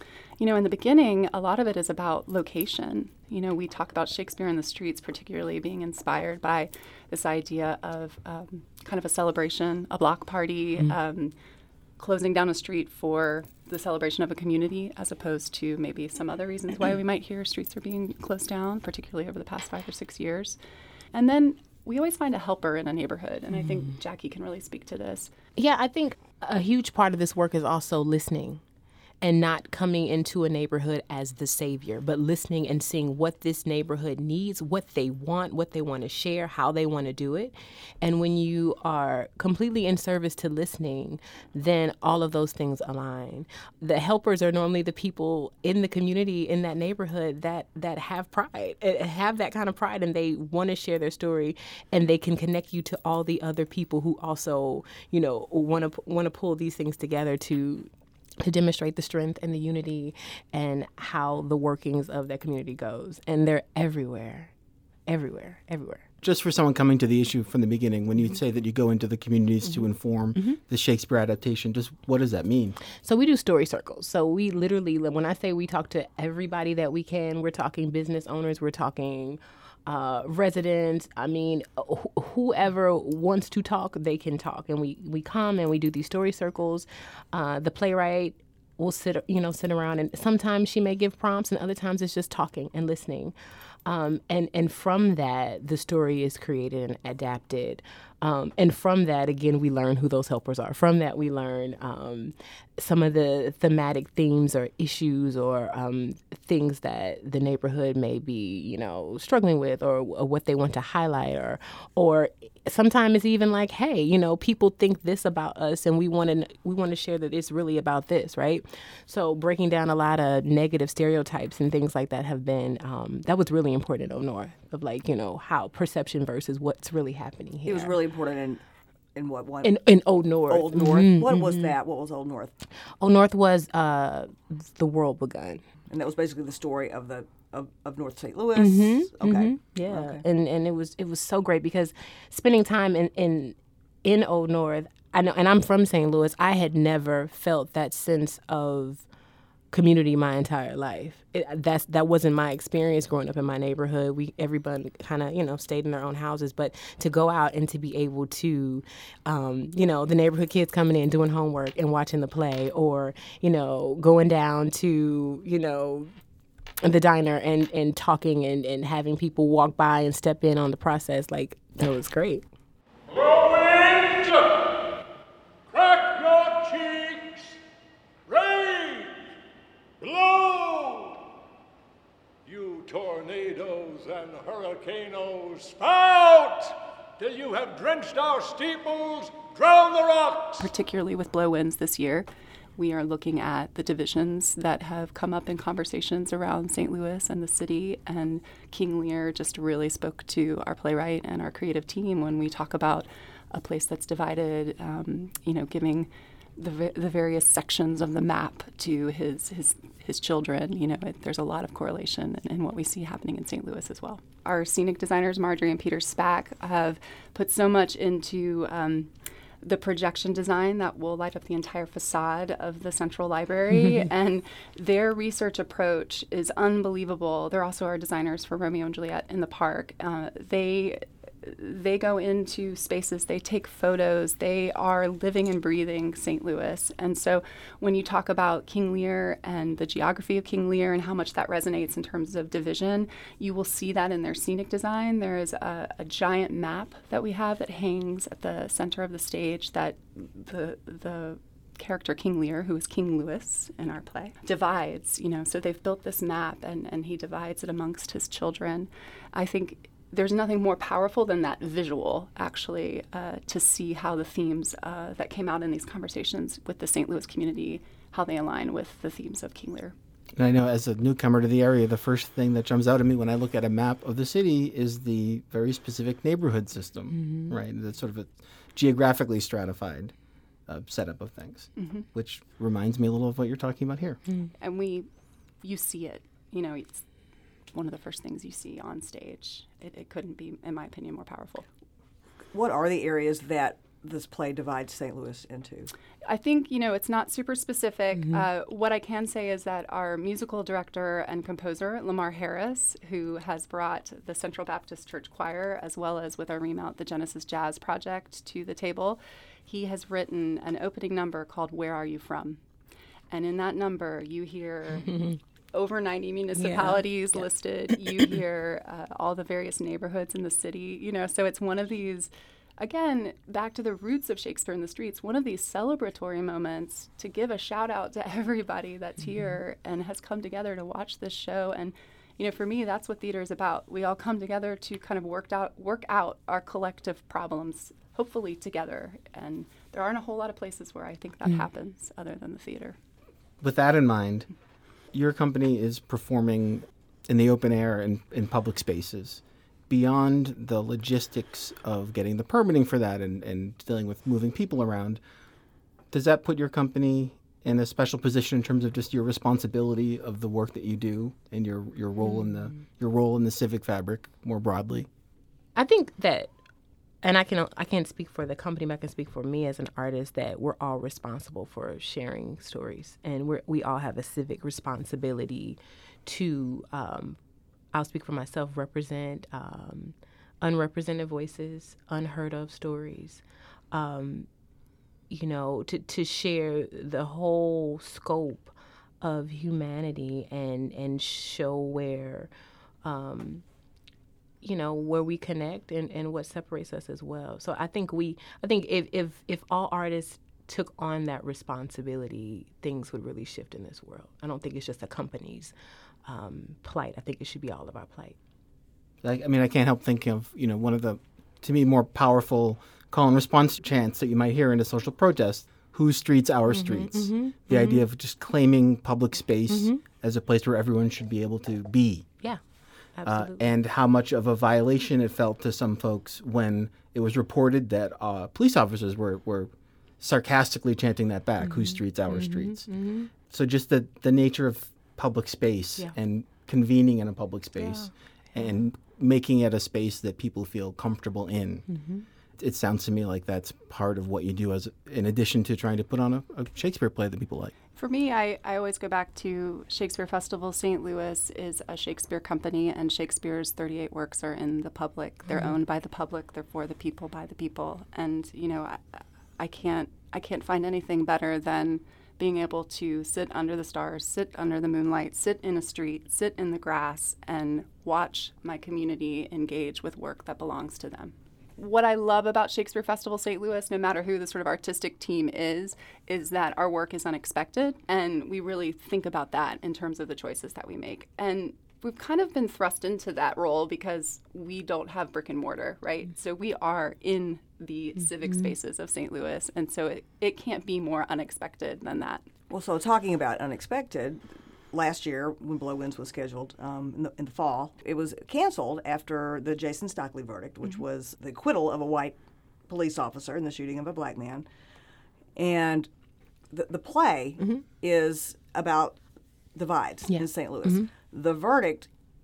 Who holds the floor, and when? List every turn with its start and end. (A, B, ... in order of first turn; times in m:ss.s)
0:00.4-0:11.3 A
0:12.0-0:20.6 A
0:21.1-0:25.3 A
0:25.6-0:28.6 B
0:29.2-0:57.9 B
0:58.4-1:04.5 B
1:05.1-1:06.0 B
1:06.2-1:12.8 C
1:13.0-1:33.3 B
1:33.8-2:08.0 B
2:07.6-2:08.6 D
2:09.1-2:09.7 D
2:09.6-2:11.7 B
2:10.5-2:12.5 D
2:13.0-2:15.6 B
2:15.9-2:20.2 D
2:18.6-2:29.0 B
2:29.7-2:46.1 B
2:46.8-2:52.4 B
2:53.1-2:54.5 E
2:55.7-2:57.6 E
2:58.3-2:59.2 E
3:00.0-3:01.2 E
3:02.4-3:10.7 E
3:10.6-4:29.9 A
4:30.4-4:40.1 C
4:37.1-4:37.5 B
4:40.7-4:44.2 C
4:41.8-4:42.0 A
4:44.6-4:45.1 A
4:45.6-4:47.0 A
4:47.7-4:51.6 A
4:52.5-4:55.9 D
4:56.2-5:12.6 A
5:13.3-5:15.2 A
5:15.7-5:43.0 A
5:16.6-5:17.5 B
5:43.6-5:44.5 C
5:45.1-5:55.2 C
5:56.1-6:05.1 C
6:02.2-6:02.7 B
6:05.8-6:06.5 B
6:07.2-6:17.4 B
6:17.9-6:24.5 B
6:25.3-6:32.5 B
6:33.0-6:33.6 B
6:34.6-6:45.7 B
6:46.2-6:48.4 B
6:49.2-7:02.3 C
6:56.7-6:58.0 B
6:59.7-7:00.0 B
7:03.2-7:03.7 B
7:03.2-7:12.9 C
7:11.6-7:13.3 B
7:13.5-7:21.9 C
7:17.8-7:18.8 B
7:21.9-7:22.2 B
7:22.6-7:27.7 C
7:28.0-8:12.4 A
8:12.7-8:22.4 D
8:22.9-8:24.6 D
8:25.6-8:26.1 D
8:26.7-8:29.2 D
8:29.7-8:32.1 D
8:30.3-8:31.1 B